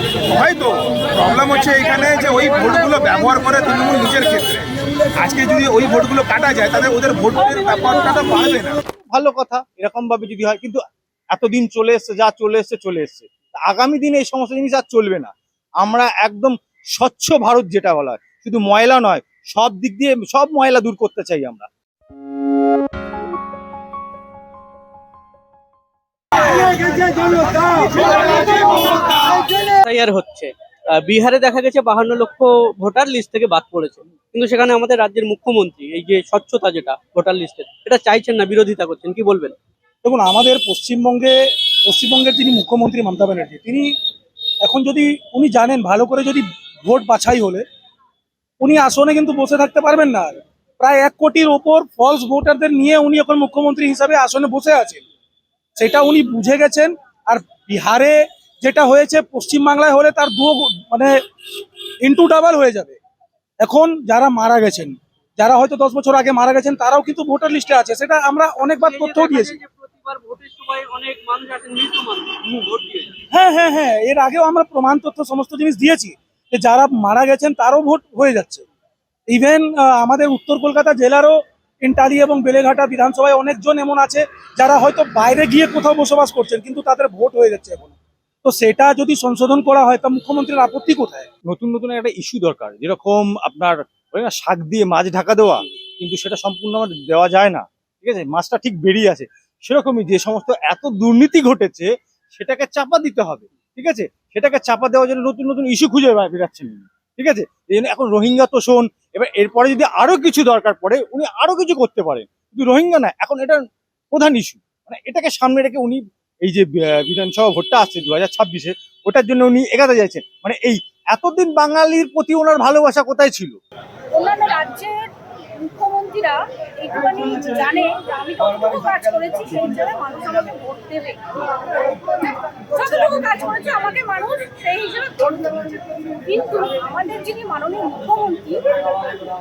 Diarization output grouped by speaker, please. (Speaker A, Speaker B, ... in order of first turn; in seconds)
Speaker A: 0.3-8.8
Speaker B: 9.1-10.8, 11.3-21.7, 91.5-113.6, 114.1-123.6
Speaker C: 27.6-39.5, 68.8-73.2
Speaker D: 40.0-43.9, 44.6-47.6, 48.6-55.0, 55.8-61.1, 62.0-63.0, 63.6-69.6, 73.3-78.7, 79.3-91.3
Speaker E: 124.1-139.1